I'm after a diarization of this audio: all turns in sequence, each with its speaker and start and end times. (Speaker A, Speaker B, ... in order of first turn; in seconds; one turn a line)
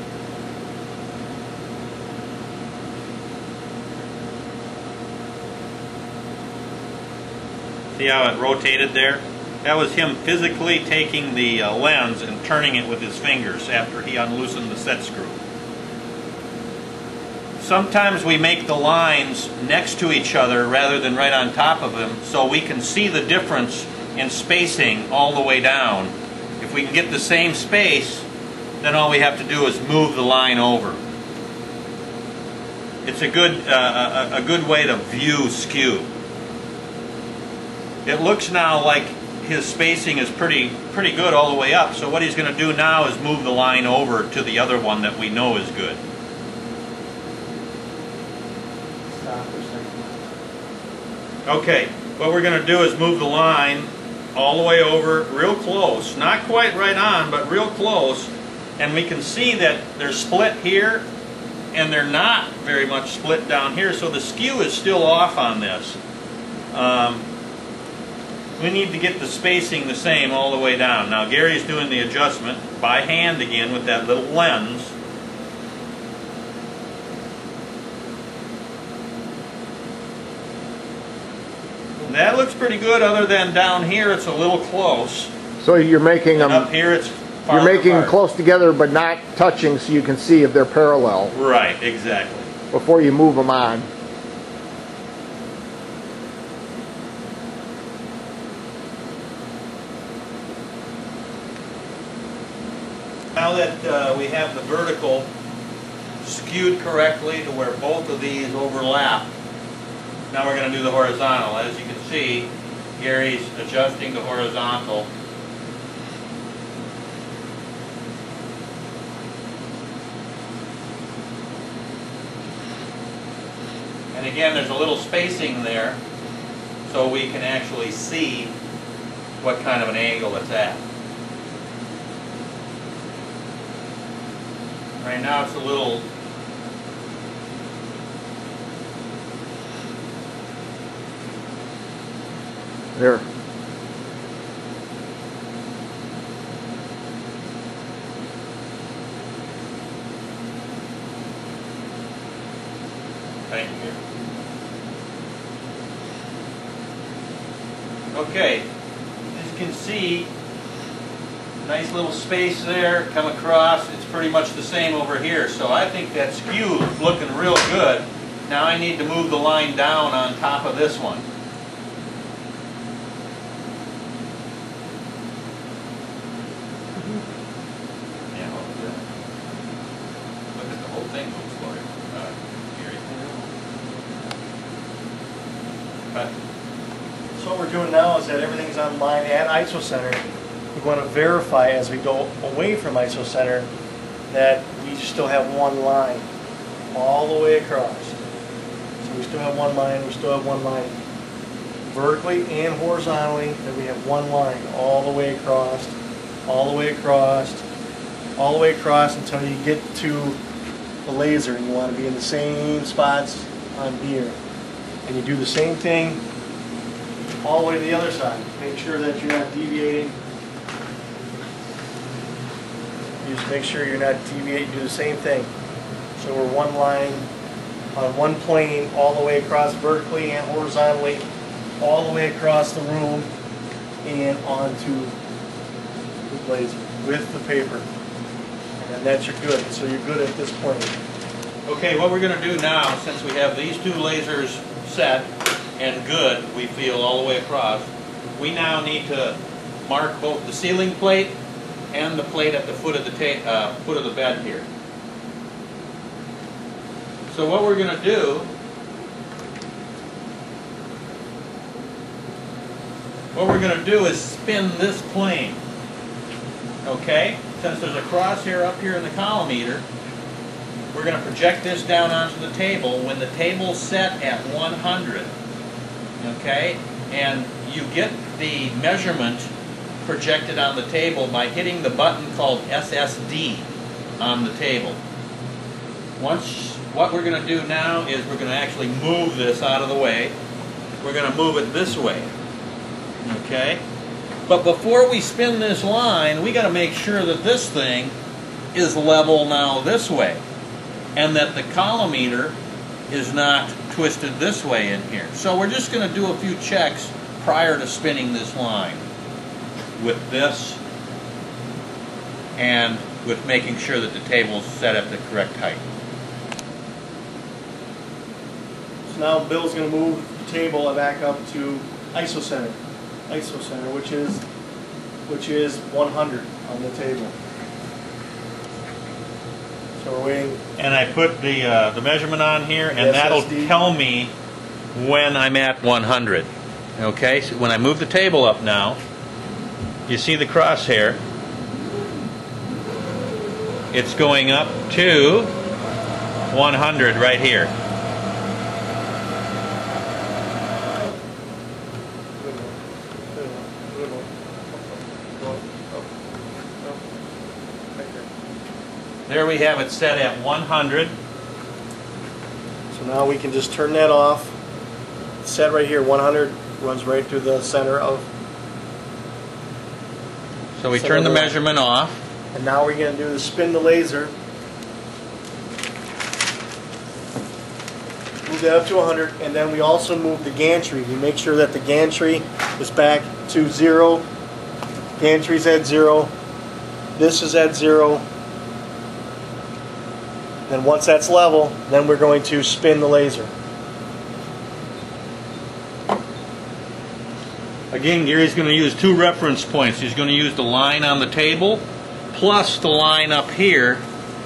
Speaker A: 8.0-15.4
Speaker A: 17.6-28.2
Speaker A: 28.8-31.0
Speaker A: 33.0-36.1
Speaker A: 38.0-46.0
Speaker B: 49.1-50.2
Speaker A: 51.5-61.0
Speaker A: 61.7-66.0
Speaker A: 66.7-67.2
Speaker A: 68.6-74.9
Speaker A: 82.0-85.3
Speaker C: 85.6-86.7
Speaker A: 86.3-88.1
Speaker C: 87.5-91.3
Speaker A: 91.3-92.5
Speaker C: 92.7-93.9
Speaker A: 103.3-105.3
Speaker A: 106.2-109.3
Speaker A: 110.3-115.1
Speaker A: 124.1-126.0
Speaker A: 126.9-128.5
Speaker A: 129.4-130.8
Speaker A: 135.0-136.0
Speaker C: 142.9-143.2
Speaker A: 153.5-154.0
Speaker A: 158.1-158.6
Speaker A: 159.3-160.3
Speaker A: 161.6-171.2
Speaker A: 178.3-179.0
Speaker A: 180.5-183.4
Speaker B: 187.4-190.2
Speaker B: 190.7-193.7
Speaker B: 194.3-196.2
Speaker B: 196.9-198.2
Speaker B: 199.0-200.9
Speaker B: 201.9-205.9
Speaker B: 206.5-207.6
Speaker B: 208.4-210.4
Speaker B: 211.0-214.4
Speaker B: 215.0-216.2
Speaker B: 217.4-220.2
Speaker B: 223.2-225.5
Speaker B: 226.2-227.3
Speaker B: 227.9-231.2
Speaker B: 231.8-233.3
Speaker B: 234.0-235.1
Speaker B: 236.3-237.8
Speaker B: 238.8-240.9
Speaker A: 241.7-251.3
Speaker A: 251.9-254.7
Speaker A: 257.3-258.5
Speaker A: 263.3-265.6
Speaker A: 266.8-269.8
Speaker A: 270.9-275.3
Speaker A: 276.2-279.5
Speaker A: 280.0-283.6
Speaker A: 284.2-285.0
Speaker A: 286.2-290.3
Speaker A: 291.0-292.3
Speaker A: 293.2-293.8
Speaker A: 294.5-298.1
Speaker A: 298.7-300.4
Speaker A: 301.1-302.6
Speaker A: 303.1-309.0
Speaker A: 310.0-310.8
Speaker A: 312.6-315.8
Speaker B: 319.1-322.8
Speaker B: 323.3-324.4
Speaker B: 325.3-327.4
Speaker B: 330.0-330.6
Speaker A: 330.8-334.3
Speaker B: 332.9-333.7
Speaker A: 334.9-339.0
Speaker A: 340.1-341.2
Speaker A: 343.9-345.5
Speaker A: 346.5-347.7
Speaker B: 352.4-352.8
Speaker B: 353.3-356.1
Speaker B: 357.9-358.3
Speaker A: 359.3-361.1
Speaker B: 362.9-364.5
Speaker B: 365.4-368.3
Speaker A: 370.8-372.1
Speaker B: 370.9-371.6
Speaker B: 372.5-374.3
Speaker B: 378.4-384.3
Speaker B: 385.2-386.3
Speaker B: 387.1-388.2
Speaker B: 390.7-393.5
Speaker A: 397.9-404.0